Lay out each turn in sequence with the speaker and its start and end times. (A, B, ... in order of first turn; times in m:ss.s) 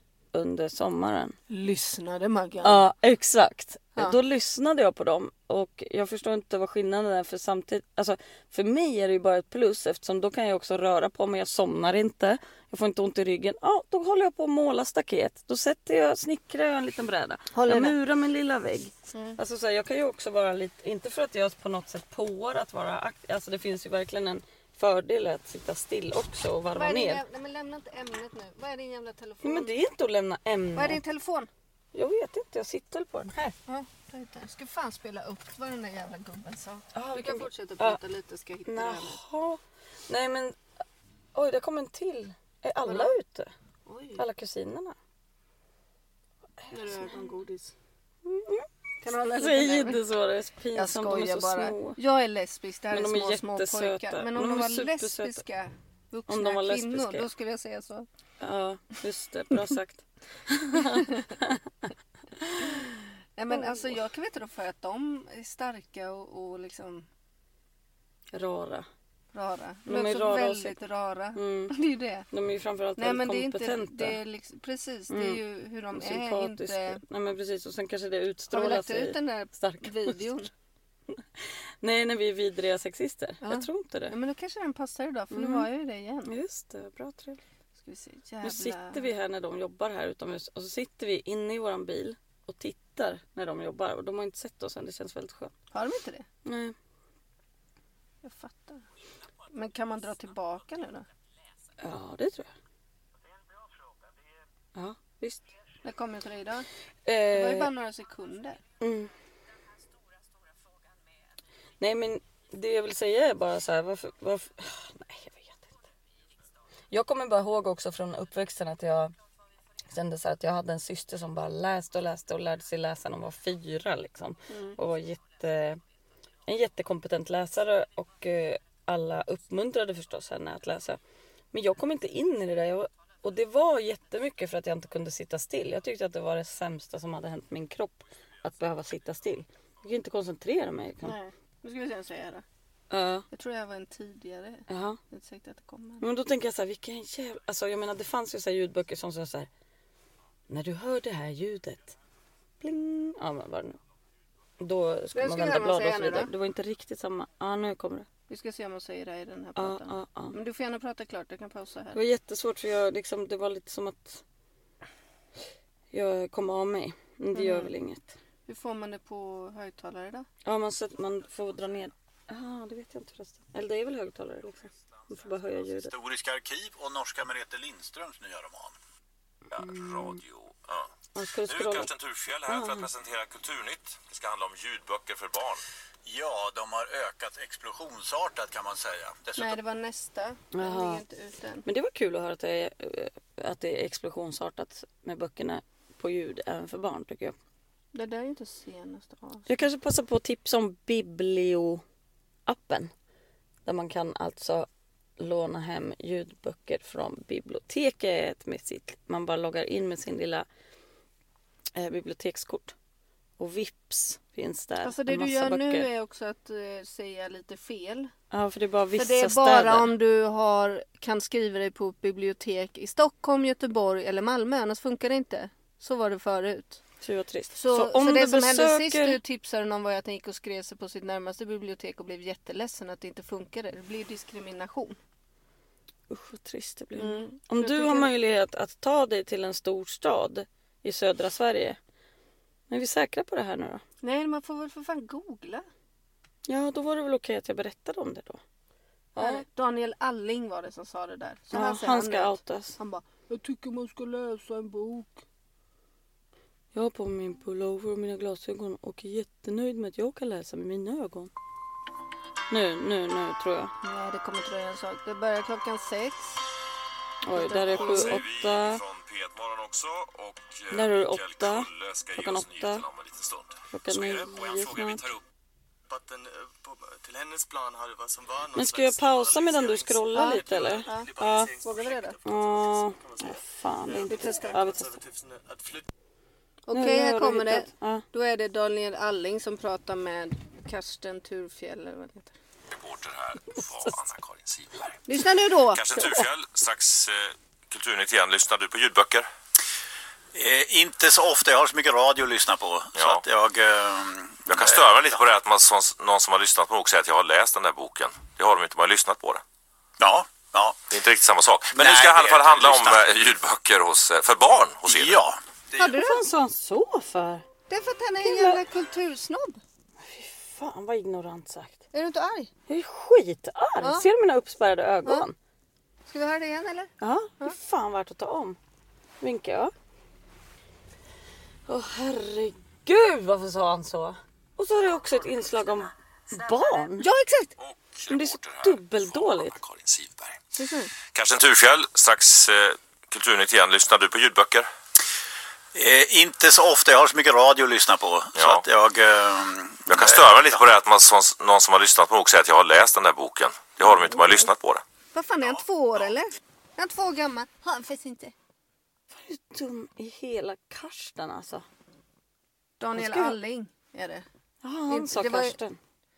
0:00.3-0:01.3 A
0:01.5-0:02.8 B
0:02.6-0:27.2 A
0:17.5-0:18.0 B
0:19.1-0:19.4 B
0:26.7-0:29.7 B
0:29.4-0:31.0 A
0:30.7-0:31.5 B
0:31.9-0:33.5 A
0:33.6-0:39.2 B
0:36.9-0:38.0 A
0:38.6-0:40.5 A
0:41.3-0:43.5 A
0:42.8-0:43.1 B
0:43.8-0:44.2 B
0:44.2-0:44.9 A
0:46.6-0:47.1 A
0:46.7-0:47.7 B
0:48.2-0:48.6 A
0:49.0-0:50.0 B
0:49.3-0:52.0 A
0:50.7-0:58.0 B
0:52.9-0:55.4 A
0:56.3-0:57.3 A
0:58.4-1:01.6 A
1:00.8-1:01.1 B
1:02.4-1:02.7 A
1:02.6-1:07.0 B
1:03.5-1:03.9 A
1:08.3-1:08.9 A
1:09.3-1:12.3 B
1:09.9-1:10.8 A
1:11.3-1:11.7 A
1:12.3-1:14.2 A
1:13.0-1:17.0 B
1:15.1-1:15.4 A
1:15.9-1:20.2 A
1:18.5-1:20.5 B
1:21.8-1:24.1 A
1:23.4-1:26.3 B
1:25.3-1:25.7 A
1:26.2-1:27.4 A
1:27.8-1:29.0 B
1:28.4-1:35.5 A
1:35.7-1:36.2 B
1:36.4-1:36.7 A
1:38.2-1:38.8 B
1:39.5-1:41.0 B
1:41.8-1:42.5 A
1:44.7-1:45.5 A
1:45.8-1:46.6 B
1:47.0-1:47.7 A
1:47.3-1:48.6 B
1:48.8-1:49.1 A
1:51.8-1:55.9 A
1:56.9-1:59.1 A
1:59.9-2:05.8 A
2:04.5-2:04.8 B
2:06.5-2:11.0 A
2:11.5-2:21.1 A
2:21.0-2:22.4 B
2:22.9-2:23.2 A
2:23.3-2:26.1 B
2:24.7-2:25.0 A
2:26.0-2:29.5 A
2:30.5-2:32.0 A
2:32.6-2:33.8 A
2:34.6-2:38.1 A
2:35.1-2:36.3 B
2:38.3-2:42.0 B
2:39.6-2:40.3 A
2:41.9-2:44.2 A
2:45.9-2:48.2 A
2:47.3-2:47.7 B
2:48.5-2:50.2 B
2:50.4-2:55.9 A
2:55.9-2:58.7 C
2:59.5-3:00.9 D
2:59.5-3:00.2 A
3:01.1-3:01.9 A
3:01.4-3:05.6 D
3:02.5-3:02.9 A
3:06.0-3:09.6 C
3:09.4-3:11.6 B
3:10.5-3:11.0 A
3:11.6-3:17.4 A
3:17.9-3:19.5 B
3:19.5-3:21.8 A
3:22.4-3:22.9 A
3:23.6-3:24.7 A
3:25.2-3:30.4 A
3:31.8-3:32.7 A
3:33.4-3:35.9 A
3:34.8-3:38.1 B
3:38.3-3:39.9 A
3:38.9-3:46.8 B
3:47.0-3:49.2 A
3:47.5-3:55.0 B
3:56.1-4:01.8 A
3:57.0-3:58.1 B
4:02.7-4:03.8 A
4:04.0-4:05.6 B
4:06.5-4:08.4 A
4:09.1-4:09.4 A
4:09.2-4:15.2 B
4:11.5-4:12.8 A
4:16.7-4:21.3 A
4:22.5-4:23.7 A
4:23.8-4:26.2 B
4:27.2-4:28.8 A
4:27.3-4:28.2 B
4:27.7-4:35.2 D
4:30.7-4:32.8 A
4:33.7-4:35.1 A
4:35.9-4:45.8 E
4:38.5-4:41.6 A
4:40.1-4:42.2 B
4:42.2-4:45.0 A
4:44.0-4:44.6 B
4:46.7-4:52.3 B
4:46.7-4:48.0 A
4:52.7-4:59.3 D
4:55.1-4:56.0 B
5:00.3-5:05.0 C
5:02.9-5:03.2 D
5:04.4-5:09.4 D
5:10.0-5:10.9 C
5:10.9-5:15.2 D
5:11.7-5:13.1 C
5:14.9-5:15.4 C
5:15.7-5:16.2 B
5:15.8-5:17.4 A
5:17.7-5:19.6 B
5:18.2-5:18.6 A
5:20.0-5:21.8 A
5:21.9-5:22.5 B
5:22.7-5:25.3 A
5:23.8-5:24.1 B
5:26.0-5:27.6 B
5:27.0-5:28.6 A
5:29.2-5:29.7 A
5:31.7-5:37.1 A
5:37.0-5:37.5 B
5:37.6-5:40.4 D
5:38.1-5:39.6 A
5:40.6-5:40.9 B
5:41.1-5:44.7 D
5:45.7-5:50.6 C
5:48.3-5:48.6 D
5:49.9-5:54.8 D
5:54.0-5:54.4 B
5:55.1-5:58.3 B
5:59.1-6:01.6 A
6:02.8-6:04.2 B
6:03.0-6:03.4 A
6:04.6-6:05.8 A
6:04.9-6:05.6 B